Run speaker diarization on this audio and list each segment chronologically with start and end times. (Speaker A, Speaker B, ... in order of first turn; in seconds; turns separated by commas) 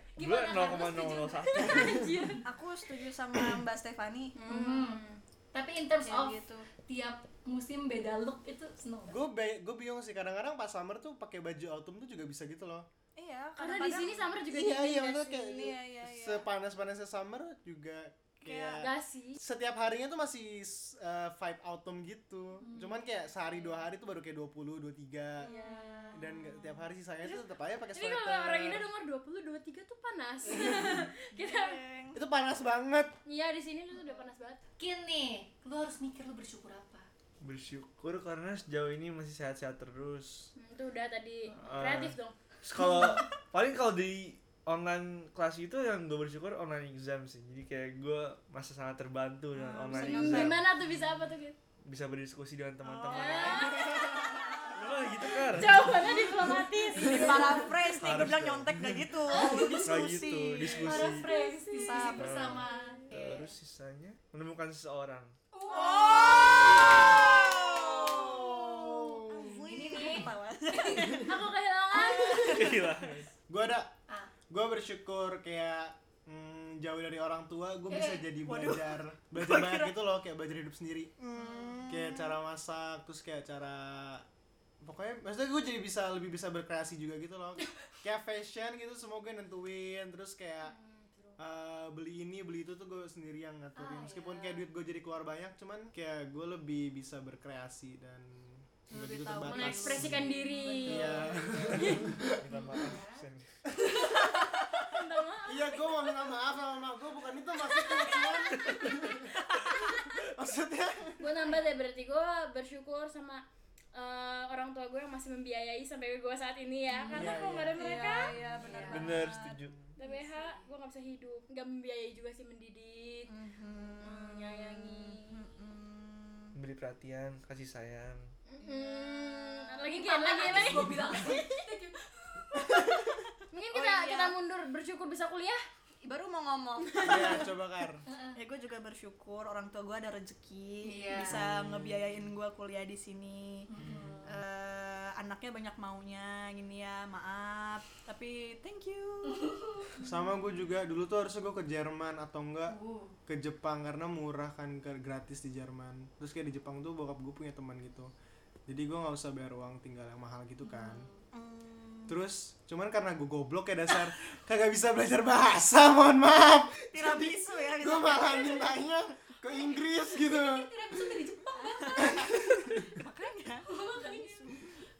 Speaker A: 0.2-1.9, Speaker B: 0.2-2.1, Speaker C: 1.5-2.4, Speaker D: 2.4-4.4, Speaker C: 4.3-5.2, Speaker A: 4.5-9.2, Speaker D: 6.0-6.7, Speaker E: 9.1-12.8, Speaker D: 13.2-14.3, Speaker C: 13.6-15.7, Speaker E: 14.5-25.5, Speaker D: 15.4-16.4, Speaker D: 18.4-18.9, Speaker C: 18.8-19.4, Speaker A: 22.6-23.3, Speaker C: 25.4-26.2, Speaker A: 25.4-26.1, Speaker D: 25.5-26.0, Speaker E: 26.1-28.9, Speaker C: 27.9-31.8, Speaker D: 31.3-32.2, Speaker E: 32.1-33.1, Speaker C: 33.2-34.6, Speaker A: 34.8-37.1, Speaker B: 37.4-40.5, Speaker C: 40.5-42.4, Speaker B: 41.5-50.6, Speaker D: 49.5-50.6, Speaker C: 49.9-51.5, Speaker B: 51.8-53.7, Speaker D: 52.8-55.3, Speaker C: 53.1-57.9, Speaker E: 53.9-54.4, Speaker B: 54.7-55.9, Speaker E: 56.2-57.3, Speaker D: 57.0-61.1, Speaker A: 57.1-57.6, Speaker B: 58.0-59.0, Speaker A: 59.3-59.8, Speaker C: 59.3-59.8, Speaker B: 59.6-61.3, Speaker A: 60.6-63.4, Speaker C: 60.8-63.3, Speaker D: 61.8-62.6, Speaker B: 62.2-65.3, Speaker A: 65.5-68.5, Speaker D: 65.7-73.1, Speaker E: 68.2-70.2, Speaker A: 69.5-71.2, Speaker C: 71.2-72.9, Speaker A: 72.0-72.3, Speaker B: 72.3-73.3, Speaker E: 73.5-73.9, Speaker E: 74.5-81.1, Speaker A: 77.9-78.3, Speaker D: 78.4-79.9, Speaker D: 81.2-82.4, Speaker A: 81.3-81.9, Speaker E: 81.8-84.2, Speaker E: 84.8-90.7, Speaker C: 90.6-91.4, Speaker E: 91.4-100.3, Speaker A: 93.7-94.7, Speaker A: 98.9-103.2, Speaker C: 99.4-102.1, Speaker E: 100.8-102.7, Speaker B: 101.8-103.6, Speaker E: 103.8-104.7, Speaker C: 104.0-106.3, Speaker E: 105.5-111.2, Speaker C: 107.5-110.1, Speaker C: 111.2-118.3, Speaker A: 111.3-111.7, Speaker D: 116.9-119.6, Speaker E: 117.1-119.9, Speaker A: 118.5-119.2, Speaker B: 118.8-119.7, Speaker C: 120.0-123.3, Speaker A: 120.0-120.7, Speaker D: 123.3-126.5, Speaker C: 124.0-125.5, Speaker B: 126.5-128.3, Speaker C: 128.5-131.5, Speaker D: 128.6-129.6, Speaker A: 129.8-132.8, Speaker D: 130.5-131.0, Speaker E: 132.6-133.0, Speaker C: 133.5-135.6, Speaker D: 133.7-134.3, Speaker D: 136.0-137.5, Speaker C: 136.9-137.4, Speaker E: 137.0-138.0, Speaker A: 138.1-138.4, Speaker D: 138.3-143.7, Speaker A: 140.8-141.4, Speaker E: 141.3-142.0, Speaker A: 143.7-144.4, Speaker E: 143.8-144.2, Speaker D: 144.2-149.9, Speaker A: 149.3-149.9, Speaker E: 150.0-158.1, Speaker A: 152.7-153.2, Speaker E: 158.7-161.1, Speaker A: 160.6-161.2, Speaker D: 161.3-162.2, Speaker E: 162.1-171.0, Speaker D: 166.9-168.8, Speaker A: 169.5-172.3, Speaker D: 171.5-174.8, Speaker E: 172.0-172.9, Speaker A: 173.7-174.6